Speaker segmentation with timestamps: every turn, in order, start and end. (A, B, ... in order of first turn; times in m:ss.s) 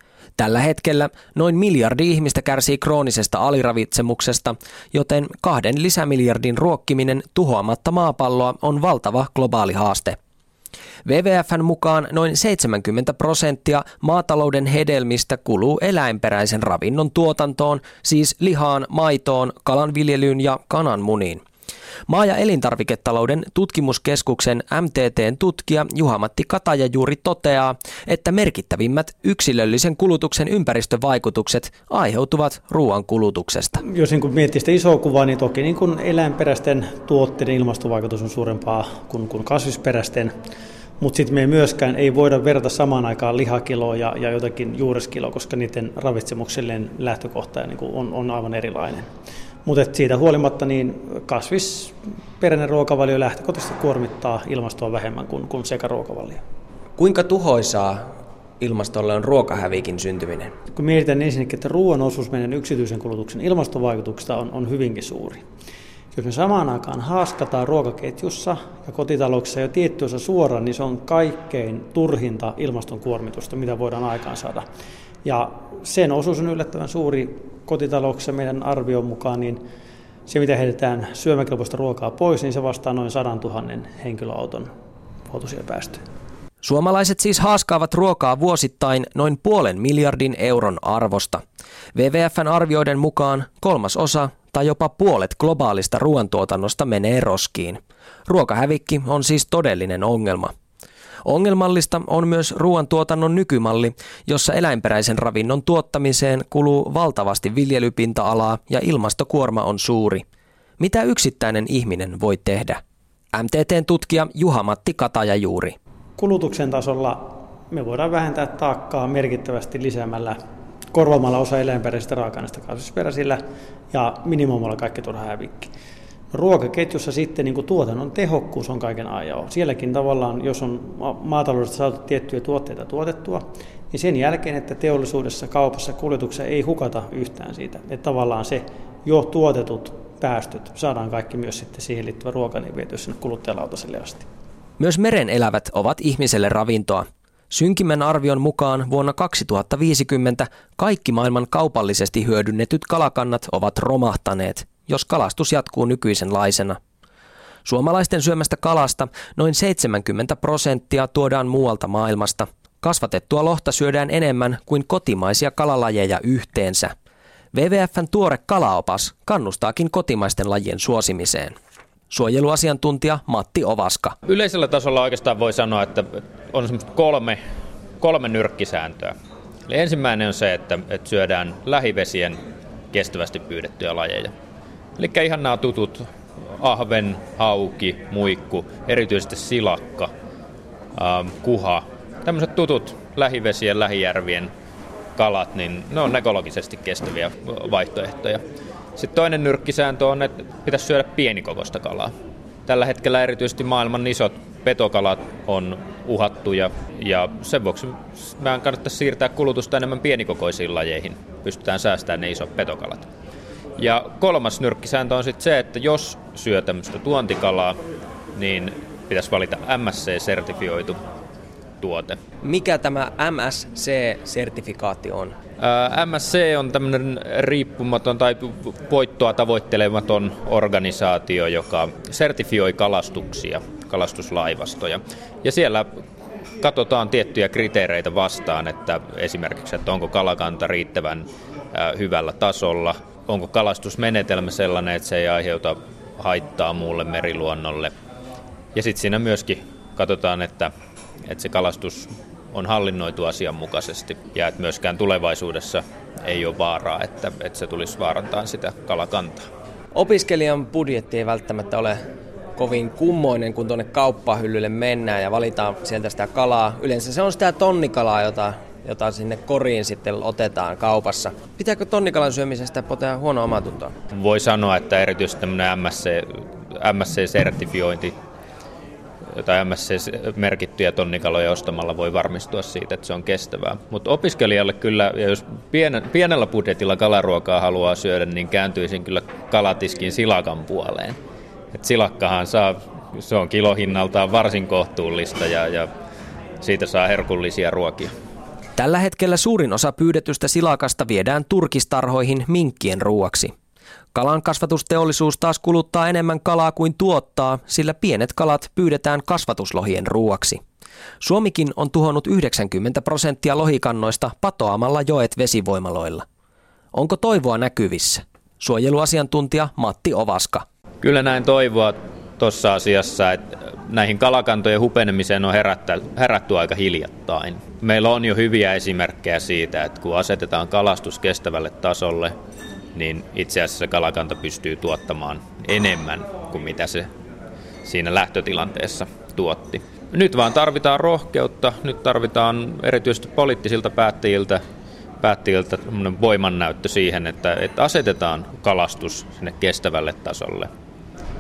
0:00.4-0:10.2 A
0:11.0-0:21.4 A
0:22.1-0:33.8 A
0:33.8-0:40.3 B
0:41.0-0:49.0 B
0:49.6-0:56.4 B
0:57.0-1:00.5 A
1:00.7-1:05.4 B
1:06.1-1:14.6 B
1:15.2-1:19.6 B
1:20.3-1:24.7 B
1:25.3-1:26.0 B
1:26.6-1:31.4 A
1:31.9-1:40.5 A
1:41.2-1:50.2 A
1:50.8-1:52.8 A
1:53.3-1:55.8 A
1:56.2-2:00.4 B
2:00.9-2:03.4 B
2:03.9-2:05.7 B
2:06.3-2:24.2 B
2:24.8-2:36.8 A
2:37.6-2:46.9 A
2:47.5-2:51.5 A
2:52.1-2:54.2 A
2:54.2-2:57.4 C
2:58.0-2:59.1 C
2:59.7-3:02.4 C
3:02.9-3:04.3 C
3:05.0-3:06.0 C
3:06.6-3:10.1 C
3:10.9-3:14.5 C
3:15.2-3:18.4 C
3:19.0-3:22.1 C
3:22.7-3:33.1 C
3:33.8-3:37.8 C
3:38.4-3:41.0 C
3:41.8-3:42.2 C
3:42.4-3:45.3 A
3:45.6-3:55.9 C
3:56.6-4:07.9 C
4:08.7-4:10.7 C
4:11.2-4:19.5 C
4:19.9-4:22.0 A
4:22.6-4:33.9 A
4:34.1-4:38.1 C
4:39.4-4:51.2 C
4:51.7-4:55.9 C
4:56.6-4:58.1 C
4:58.8-5:03.5 A
5:04.1-5:10.6 A
5:11.2-5:16.2 A
5:16.9-5:20.6 A
5:21.0-5:32.3 C
5:32.9-5:37.1 C
5:37.8-5:44.6 C
5:45.2-5:50.7 C